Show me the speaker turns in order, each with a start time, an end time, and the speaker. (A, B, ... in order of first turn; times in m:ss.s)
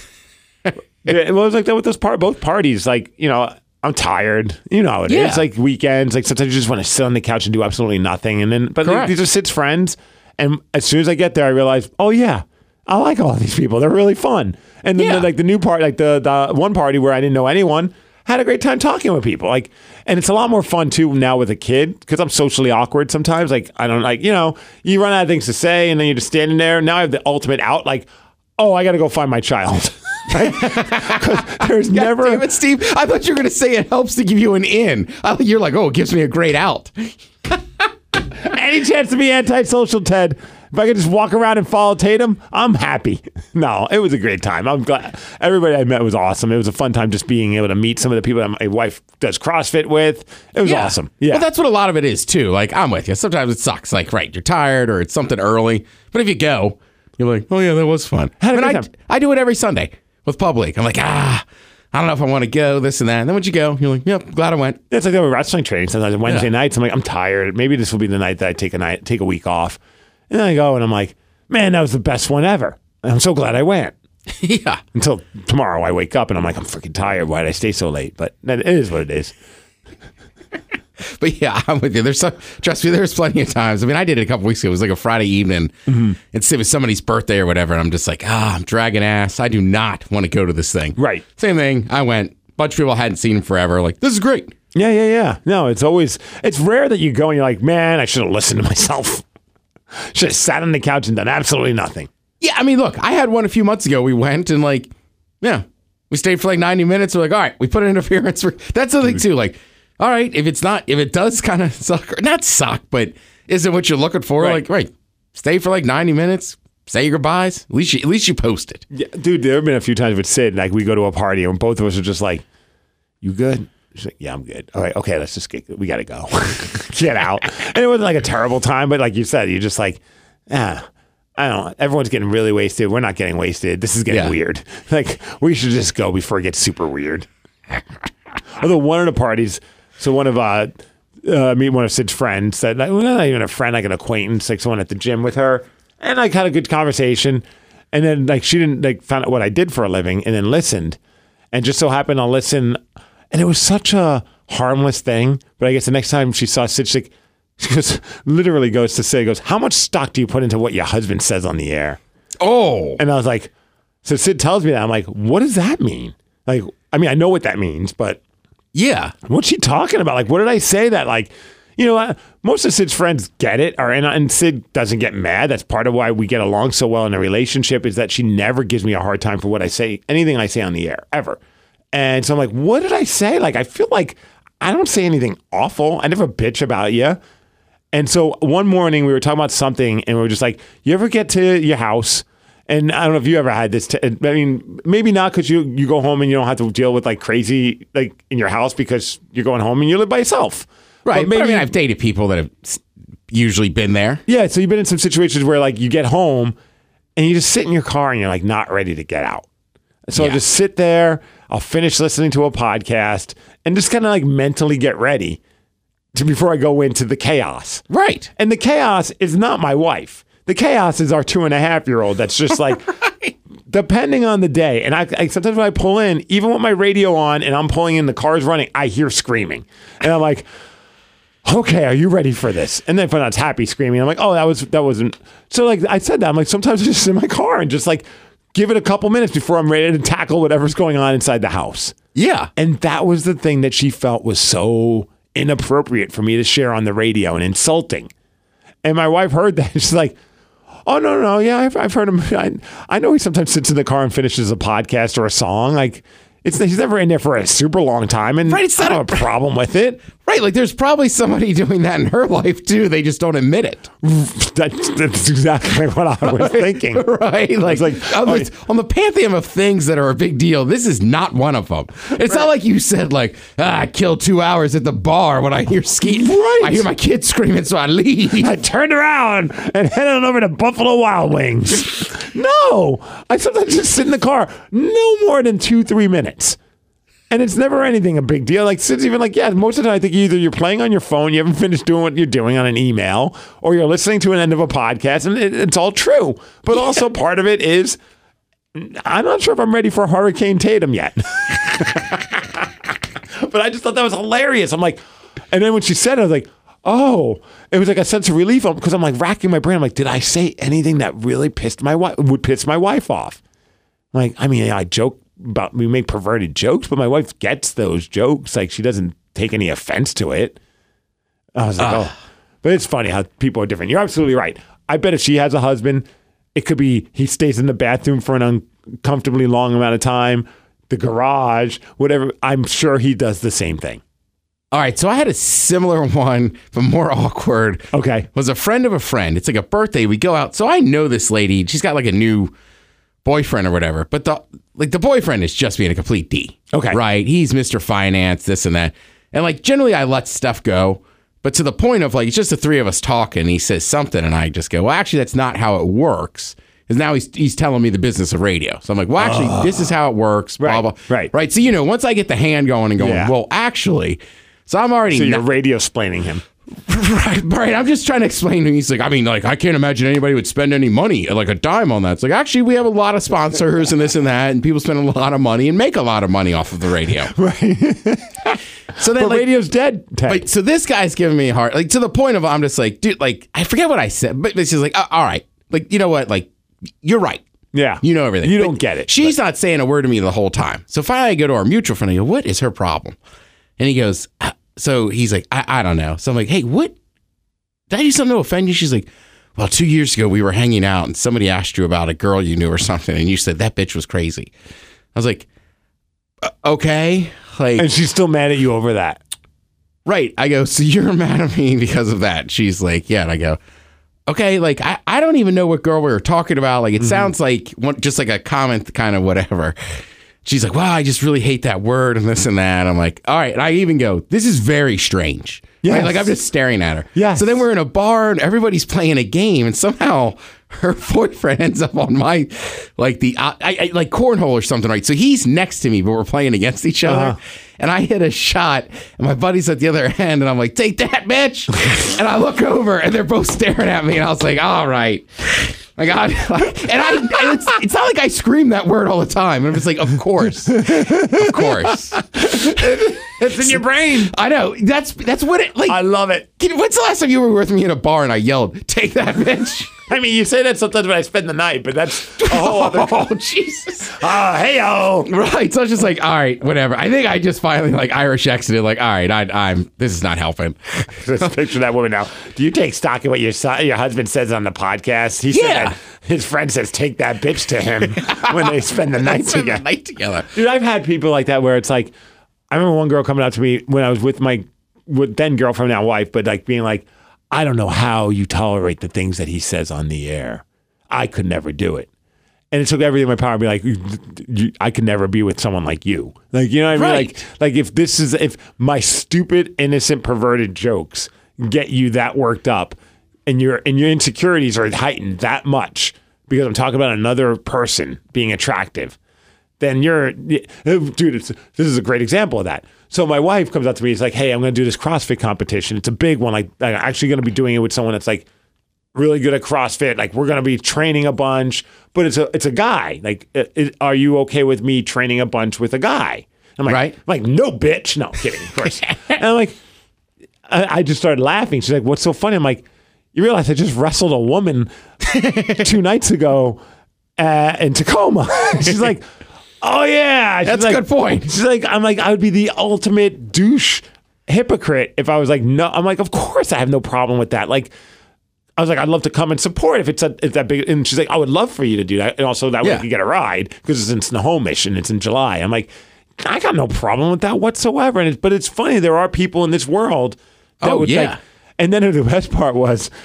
0:00.6-0:01.1 A
0:01.0-0:32.5 B
0:05.1-0:05.4 A
0:08.8-0:09.2 A
0:15.0-0:15.3 A
0:30.3-0:37.6 A
0:38.4-0:51.5 B
0:50.6-1:04.8 A
0:58.4-0:58.9 B
1:04.9-1:09.8 B
1:10.3-1:14.0 B
1:14.3-1:14.8 A
1:15.0-1:19.3 B
1:21.0-1:25.7 A
1:25.9-1:26.2 B
1:26.2-1:34.5 A
1:31.0-1:31.3 B
1:34.7-1:39.2 B
1:40.1-1:42.1 B
1:42.4-1:44.9 A
1:45.4-1:58.8 A
1:58.9-2:02.4 B
2:03.2-2:10.8 B
2:11.4-2:17.3 B
2:14.1-2:14.4 A
2:18.6-2:31.0 B
2:31.5-2:32.8 B
2:33.3-2:42.0 B
2:42.4-2:43.0 A
2:43.0-2:43.5 B
2:44.0-2:48.2 B
2:48.7-2:49.2 A
2:49.3-3:01.4 B
3:01.9-3:07.2 B
3:07.9-3:21.7 B
3:21.1-3:24.2 A
3:24.3-3:26.6 B
3:27.2-3:29.5 B
3:30.1-3:35.4 B
3:36.1-3:37.8 B
3:37.9-3:38.3 A
3:38.4-3:43.0 B
3:43.0-3:43.3 A
3:43.7-3:50.5 B
3:51.4-4:02.0 B
4:02.2-4:02.5 A
4:02.6-4:08.1 B
4:08.8-4:10.2 B
4:10.9-4:20.1 B
4:18.5-4:19.3 A
4:20.2-4:23.9 A
4:24.0-4:27.0 B
4:26.2-4:38.5 A
4:27.6-4:28.5 B
4:36.0-4:36.9 B
4:38.4-4:46.6 B
4:47.3-4:58.0 B
4:58.8-5:02.4 B
5:03.4-5:05.0 B
5:05.5-5:13.4 B
5:14.1-5:20.6 B
5:21.6-5:34.0 B
5:21.8-5:22.1 A
5:34.7-5:42.5 A
5:37.9-5:38.3 B
5:43.2-6:05.4 A
5:46.7-5:47.0 B
5:59.2-5:59.9 B
6:00.6-6:01.3 B
6:03.0-6:03.3 B
6:05.1-6:06.4 B
6:06.9-6:17.3 A
6:17.3-6:20.4 B
6:19.0-6:19.5 A
6:20.3-6:26.5 A
6:27.0-6:27.4 A
6:27.7-6:29.4 B
6:28.0-6:33.2 A
6:33.8-6:37.0 A
6:37.9-6:44.5 A
6:45.2-6:45.5 A
6:46.4-6:47.9 A
6:47.8-6:49.2 B
6:50.1-6:53.6 A
6:54.3-6:59.8 A
6:57.0-6:57.3 B
7:00.4-7:36.0 A
7:05.8-7:06.3 B
7:07.2-7:07.6 B
7:17.1-7:17.4 B
7:30.8-7:34.3 B
7:35.9-7:36.5 B
7:36.6-7:39.9 A
7:40.1-7:43.3 B
7:42.4-7:44.2 A
7:44.2-7:45.3 B
7:45.3-7:51.5 A
7:51.2-7:59.8 B
7:55.5-7:56.0 A
7:58.0-8:00.5 A
8:00.5-8:02.1 B
8:02.7-8:12.1 B
8:12.7-8:23.0 B
8:16.9-8:17.4 A
8:23.5-8:29.2 B
8:29.8-8:38.5 B
8:39.2-8:49.8 B
8:46.9-8:47.2 A
8:50.7-8:52.8 B
8:53.4-8:54.9 B
8:55.4-8:55.7 A
8:55.5-8:56.8 B
8:57.4-8:59.3 B
8:59.8-9:07.9 B
9:00.7-9:01.5 A
9:08.8-9:23.1 B
9:20.8-9:21.4 A